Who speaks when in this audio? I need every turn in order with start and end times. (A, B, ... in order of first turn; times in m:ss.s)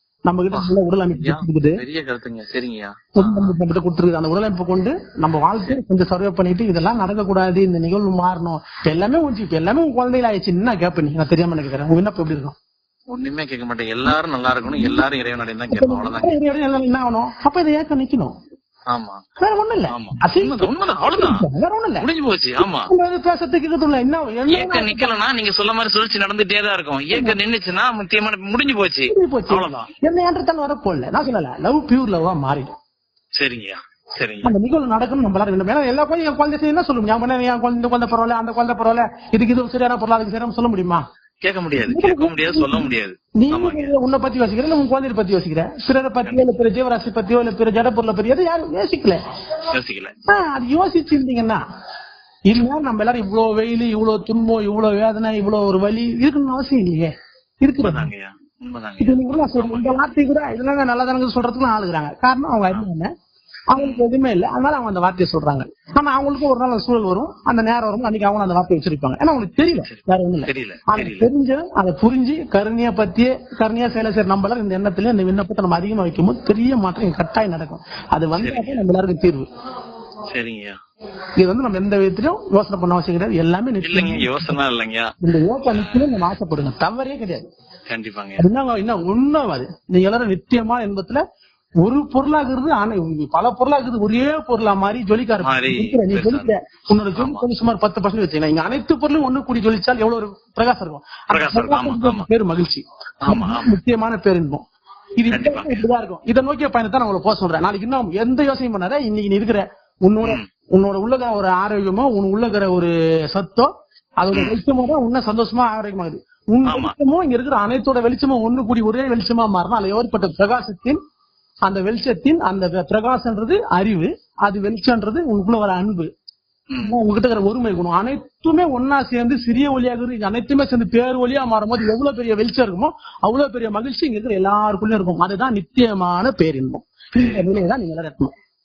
0:00.3-0:01.8 A
0:00.5-0:03.5 B
0:03.2-0:12.6 A
0:13.1-0:16.4 B
0:14.8-0:15.0 A
0:15.7-0:18.3 A
0:18.9-0:19.2 B
0:19.4-0:22.0 A
0:19.9-0:21.4 B
0:22.0-0:22.9 B
0:22.6-0:25.1 A
0:24.5-0:29.9 B
0:27.1-0:27.4 A
0:29.1-0:32.7 A
0:33.4-0:34.5 B
0:34.4-0:41.0 A
0:41.4-0:43.9 B
0:41.8-0:49.2 A
0:49.7-0:50.1 B
0:50.3-0:51.6 A
0:52.5-0:57.1 A
0:57.6-0:58.1 A
0:57.8-1:00.0 B
0:59.0-1:03.1 A
1:03.7-1:19.5 A
1:03.8-1:04.0 B
1:09.7-1:11.3 B
1:18.4-1:18.8 B
1:20.3-1:20.7 B
1:21.4-1:24.6 A
1:23.8-1:25.1 B
1:25.2-1:27.5 A
1:25.7-1:26.1 B
1:27.9-1:28.4 B
1:28.4-1:31.2 A
1:31.8-1:44.6 A
1:35.4-1:36.5 B
1:37.2-1:37.4 B
1:41.3-1:42.3 B
1:43.2-1:43.8 B
1:45.2-1:53.7 A
1:45.3-1:45.8 B
1:54.2-2:01.0 A
1:54.3-1:54.6 B
1:56.6-1:56.9 B
2:01.6-2:06.1 A
2:06.7-2:07.0 B
2:06.8-2:18.3 A
2:17.2-2:17.5 B